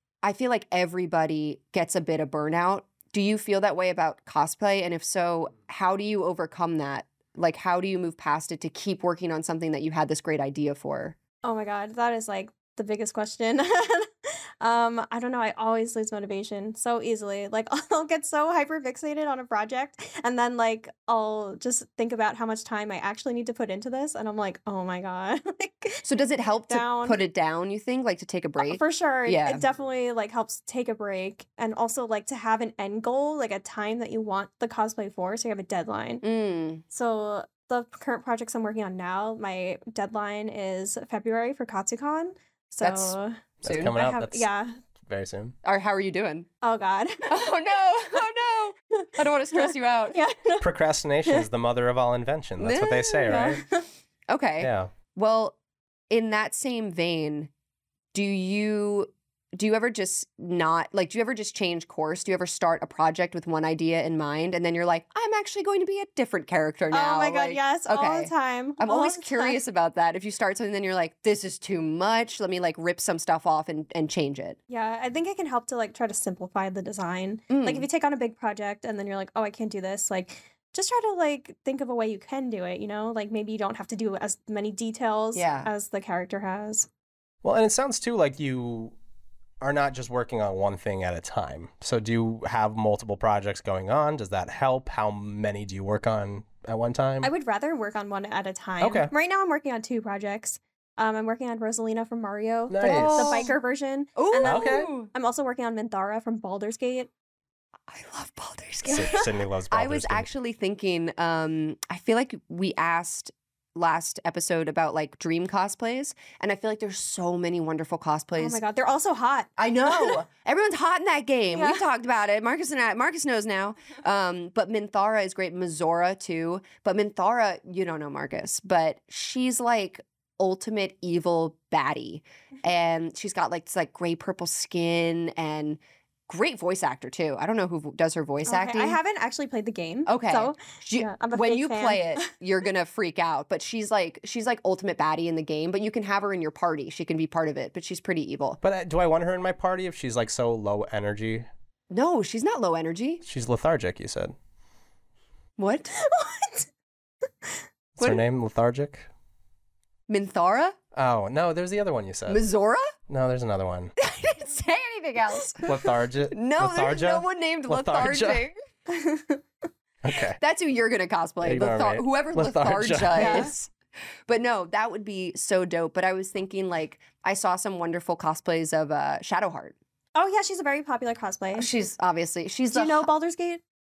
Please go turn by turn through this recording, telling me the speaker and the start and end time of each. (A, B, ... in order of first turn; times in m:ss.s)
0:00.2-0:11.2 A
0:11.4-0:26.0 B
0:26.0-0:29.6 A
0:26.7-0:27.2 B
0:28.6-0:36.2 B
0:36.2-0:36.8 A
0:36.9-0:44.7 B
0:42.8-0:44.0 A
0:43.6-0:44.5 C
0:45.1-0:45.6 C
0:45.6-0:46.5 A
0:46.6-0:47.4 B
0:47.3-0:50.2 A
0:49.0-0:50.6 B
0:50.6-0:53.6 C
0:52.6-0:53.5 A
0:53.3-0:53.8 B
0:54.3-0:55.6 A
0:54.6-0:54.9 C
0:56.1-0:57.5 A
0:58.1-1:14.6 A
1:06.9-1:09.6 B
1:14.7-1:26.9 B
1:17.5-1:17.9 A
1:25.3-1:25.7 A
1:27.4-1:29.0 C
1:29.6-1:37.3 C
1:37.2-1:47.1 B
1:38.8-1:39.1 C
1:42.7-1:43.5 C
1:42.8-1:43.5 A
1:44.2-1:45.1 A
1:44.4-1:44.9 C
1:47.9-1:58.6 A
1:48.8-1:50.3 C
1:48.9-1:49.2 B
1:58.4-2:00.2 B
1:59.6-2:19.0 A
2:01.5-2:01.8 B
2:18.5-2:22.3 B
2:20.1-2:28.6 A
2:28.6-2:31.5 C
2:31.9-2:33.2 A
2:33.2-2:34.4 C
2:35.6-2:35.9 A
2:35.9-2:36.7 B
2:38.0-2:39.1 C
2:40.1-2:40.8 A
2:40.9-2:42.4 C
2:42.3-2:42.9 A
2:43.1-2:43.9 C
2:44.0-2:45.8 A
2:45.6-2:48.4 C
2:46.3-2:48.6 A
2:48.9-2:49.4 B
2:50.0-2:50.4 C
2:50.4-2:53.7 A
2:51.4-2:53.5 C
2:53.2-2:53.5 B
2:54.3-2:59.8 A
3:00.2-3:01.7 B
3:01.6-3:03.1 A
3:02.7-3:03.6 B